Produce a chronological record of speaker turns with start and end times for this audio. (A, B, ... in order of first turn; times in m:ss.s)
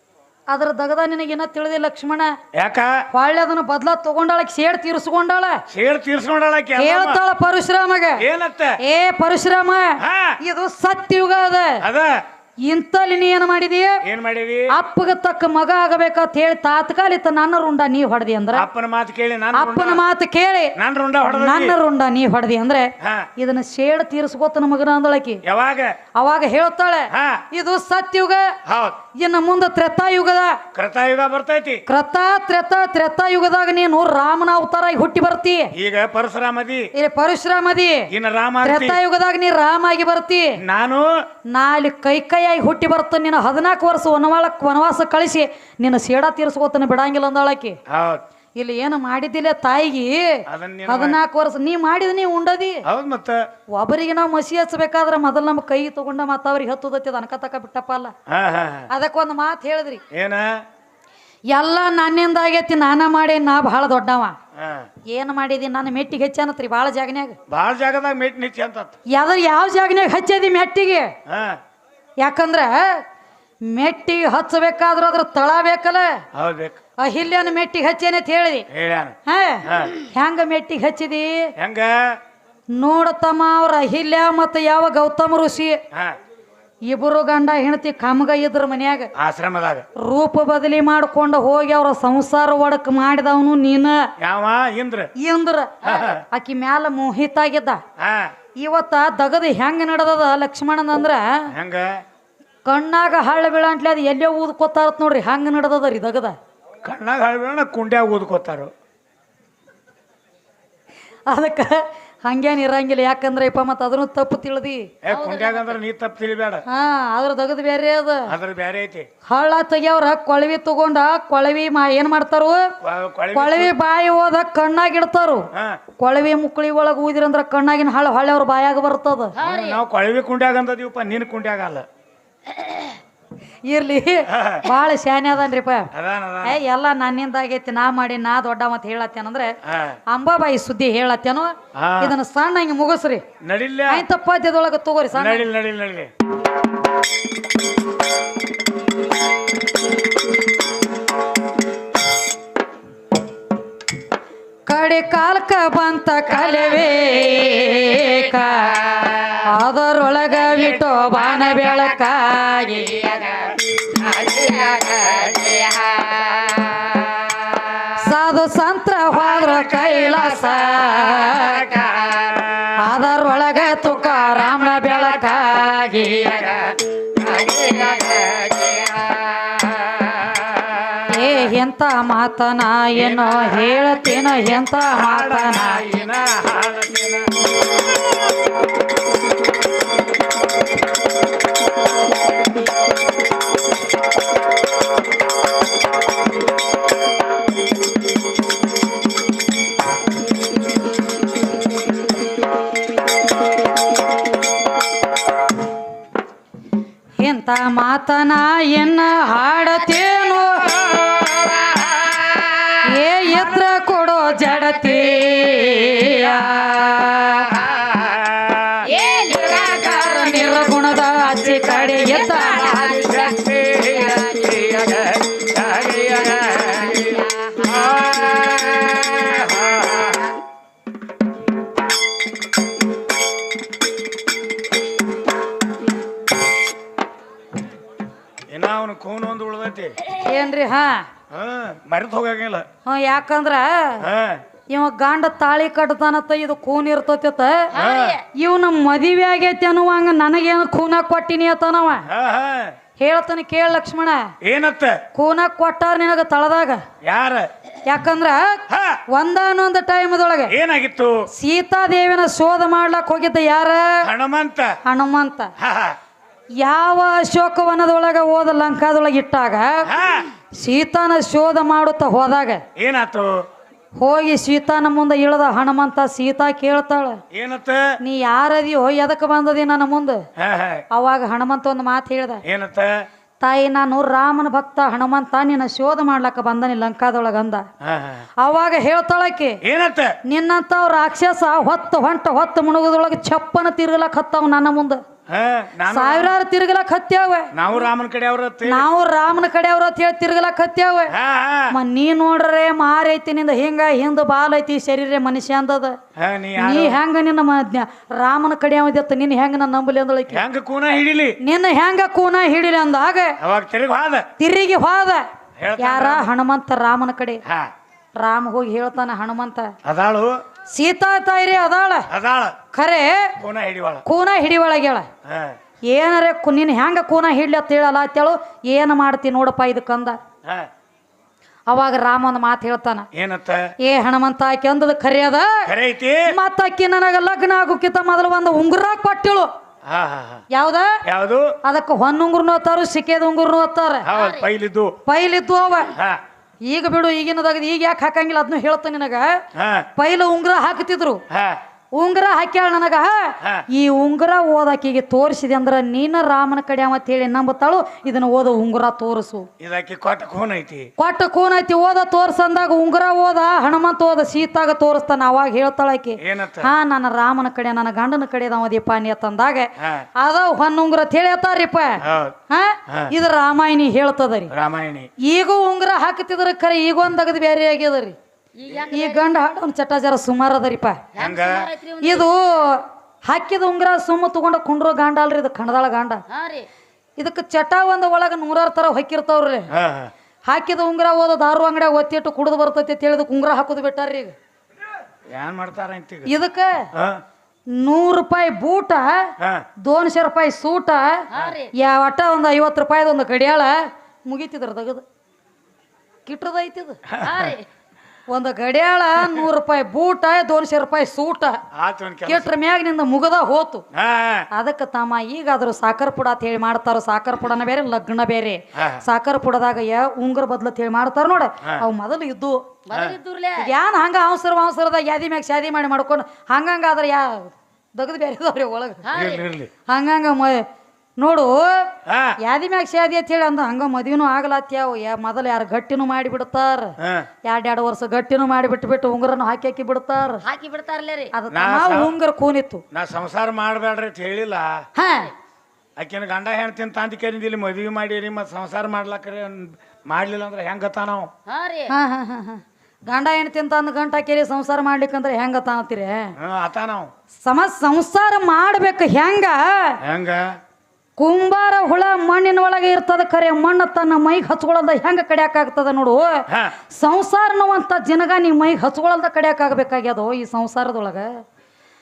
0:00.5-0:02.4 A
0:02.6-0:03.0 B
0:03.1-0:05.6 A
0:05.7-0:07.2 B
0:06.8-0:08.2 A
0:08.2-0:08.8 B
0:08.8-0:11.8 A
0:10.0-0:10.4 B
0:11.8-0:12.2 B
0:12.6-0:14.0 A
0:14.0-0:14.7 B
0:14.7-0:18.7 A
0:18.5-0:20.0 B
0:19.5-0:20.8 A
0:20.8-0:21.8 B
0:21.3-0:25.4 A
0:23.0-0:23.3 B
0:25.4-0:26.0 B
0:26.2-0:28.6 A
0:27.1-0:27.4 B
0:28.7-0:29.0 B
0:29.2-0:30.6 A
0:30.7-0:31.8 B
0:31.9-0:35.7 A
0:35.8-0:36.9 B
0:37.0-0:38.1 A
0:38.1-0:39.0 B
0:38.6-0:40.6 A
0:40.6-0:41.1 B
0:41.5-0:47.8 A
0:47.9-0:48.2 B
0:48.6-0:52.8 A
0:50.5-0:51.2 B
0:52.9-0:53.4 B
0:53.7-0:58.1 A
0:58.3-0:58.9 B
0:58.9-1:00.0 A
1:00.1-1:00.6 B
1:01.5-1:04.4 A
1:04.6-1:04.9 B
1:05.1-1:07.4 A
1:07.5-1:09.0 B
1:09.1-1:11.1 A
1:11.3-1:11.6 B
1:12.2-1:13.0 A
1:13.7-1:16.2 A
1:16.3-1:16.8 B
1:17.0-1:18.7 A
1:18.7-1:19.9 B
1:19.3-1:21.5 A
1:21.6-1:22.2 B
1:22.8-1:25.8 A
1:26.9-1:29.1 A
1:29.2-1:29.9 B
1:30.0-1:34.1 A
1:34.2-1:35.1 B
1:35.2-1:37.8 A
1:35.8-1:36.2 B
1:38.0-1:38.3 B
1:38.6-1:41.5 A
1:41.5-1:42.0 B
1:42.7-1:46.4 A
1:46.8-1:48.7 B
1:51.3-1:54.9 A
1:55.0-1:56.6 B
1:55.1-1:55.8 C
1:56.7-1:58.3 A
1:58.3-1:59.1 B
1:59.3-2:02.7 A
2:02.8-2:03.7 B
2:03.3-2:05.5 A
2:05.6-2:05.8 B
2:06.0-2:09.3 A
2:09.4-2:09.8 C
2:09.4-2:11.9 B
2:13.7-2:15.9 A
2:14.3-2:14.7 B
2:15.9-2:16.6 B
2:16.4-2:19.6 A
2:19.7-2:20.0 B
2:20.1-2:23.2 A
2:21.8-2:22.2 B
2:23.4-2:24.0 B
2:23.9-2:25.5 A
2:25.1-2:26.1 B
2:34.7-2:43.2 A
2:43.0-2:47.4 C
2:48.0-2:51.7 A
2:49.5-2:49.9 B
2:51.8-2:52.3 C
2:52.8-2:56.6 A
2:57.2-2:59.4 C
2:57.4-2:57.9 B
3:01.1-3:05.9 A
3:03.0-3:07.5 B
3:27.2-3:31.0 A
3:32.2-3:32.4 C
3:32.8-3:37.6 A
3:37.7-3:38.9 B
3:38.8-3:40.3 C
3:39.6-3:43.3 A
3:42.3-3:44.6 C
3:43.2-3:47.0 B
3:46.6-3:48.6 C
3:47.7-3:48.3 B
3:49.0-3:50.0 B
3:58.5-4:00.0 B
4:00.2-4:01.1 A
4:01.3-4:02.7 B
4:02.9-4:04.1 A
4:04.0-4:04.4 B
4:04.7-4:07.7 A
4:07.7-4:08.3 C
4:07.7-4:08.2 B
4:08.3-4:12.1 A
4:12.1-4:12.7 B
4:13.0-4:14.3 A
4:14.4-4:15.0 B
4:15.1-4:16.8 A
4:17.0-4:17.5 B
4:17.9-4:20.6 A
4:18.7-4:19.0 B
4:20.5-4:21.2 B
4:21.3-4:24.1 A
4:24.0-4:24.8 B
4:24.9-4:25.5 A
4:25.6-4:26.0 B
4:26.6-4:29.9 A
4:29.9-4:30.3 B
4:30.6-4:32.6 A
4:32.8-4:33.4 B
4:34.0-4:37.2 A
4:37.3-4:37.8 B
4:38.0-4:40.2 A
4:40.4-4:40.8 B
4:40.9-4:42.4 A
4:42.5-4:43.0 B
4:43.4-4:47.7 A
4:47.8-4:48.3 B
4:48.4-4:49.6 A
4:49.6-4:50.2 B
4:50.3-4:55.0 A
4:55.3-4:56.4 B
4:55.9-4:57.5 A
4:57.5-4:58.9 B
4:58.6-5:01.1 A
5:01.1-5:01.8 B
5:01.7-5:06.0 A
5:06.2-5:07.0 B
5:06.6-5:10.4 A
5:10.3-5:11.4 B
5:11.4-5:13.4 A
5:13.4-5:14.3 B
5:14.4-5:15.3 A
5:15.6-5:16.3 B
5:15.8-5:17.4 A
5:17.4-5:17.7 B
5:18.2-5:19.7 A
5:19.8-5:20.4 B
5:20.7-5:22.1 A
5:22.1-5:22.6 B
5:22.7-5:23.4 A
5:23.4-5:24.0 B
5:24.0-5:25.1 A
5:25.3-5:25.6 B
5:25.9-5:30.2 A
5:31.7-5:33.1 A
5:33.1-5:33.6 B
5:33.8-5:35.7 A
5:35.7-5:36.3 B
5:36.3-5:39.5 A
5:39.9-5:40.4 B
5:40.5-5:41.0 A
5:41.0-5:41.6 B
5:41.6-5:44.1 A
5:44.1-5:45.0 B
5:44.1-5:44.4 C
5:45.1-5:45.9 A
5:46.7-5:49.4 A
5:49.6-5:49.9 B
5:50.0-5:51.2 A
5:51.3-5:51.6 B
5:52.0-5:59.5 A
5:59.6-6:00.9 B
6:01.0-6:14.5 A
6:06.2-6:06.7 B
6:09.8-6:10.1 B
6:12.0-6:12.4 B
6:14.5-6:15.1 B
6:15.2-6:18.2 A
6:18.6-6:19.2 C
6:18.9-6:21.1 A
6:21.1-6:22.3 C
6:21.2-6:21.7 B
6:22.0-6:26.2 A
6:26.3-6:26.7 C
6:27.2-6:29.7 A
6:29.7-6:30.1 B
6:30.5-6:34.3 A
6:35.3-6:36.3 B
6:36.3-6:36.9 A
6:37.0-6:37.2 B
6:37.7-6:39.3 A
6:39.8-6:45.0 A
6:41.3-6:41.7 C
6:46.3-6:47.0 A
6:47.1-6:47.6 B
6:47.2-6:47.7 C
6:48.3-6:51.6 A
6:51.7-6:52.5 B
6:52.3-6:53.8 A
6:53.9-6:54.5 B
6:54.5-7:02.7 A
6:58.8-6:59.0 B
7:02.9-7:03.7 C
7:02.9-7:03.2 B
7:03.6-7:09.1 A
7:09.0-7:09.4 C
7:09.1-7:09.7 B
7:09.9-7:10.6 A
7:11.2-7:11.9 A
7:12.1-7:12.4 B
7:12.4-7:20.4 A
7:17.0-7:17.3 B
7:20.4-7:21.3 C
7:21.3-7:22.8 A
7:21.5-7:22.1 B
7:22.9-7:24.8 B
7:25.0-7:25.3 A
7:26.0-7:31.3 B
7:31.5-7:31.9 C
7:31.9-7:36.3 A
7:36.4-7:37.1 B
7:37.4-7:40.0 A
7:40.0-7:40.6 B
7:41.2-7:51.3 A
7:46.5-7:46.8 B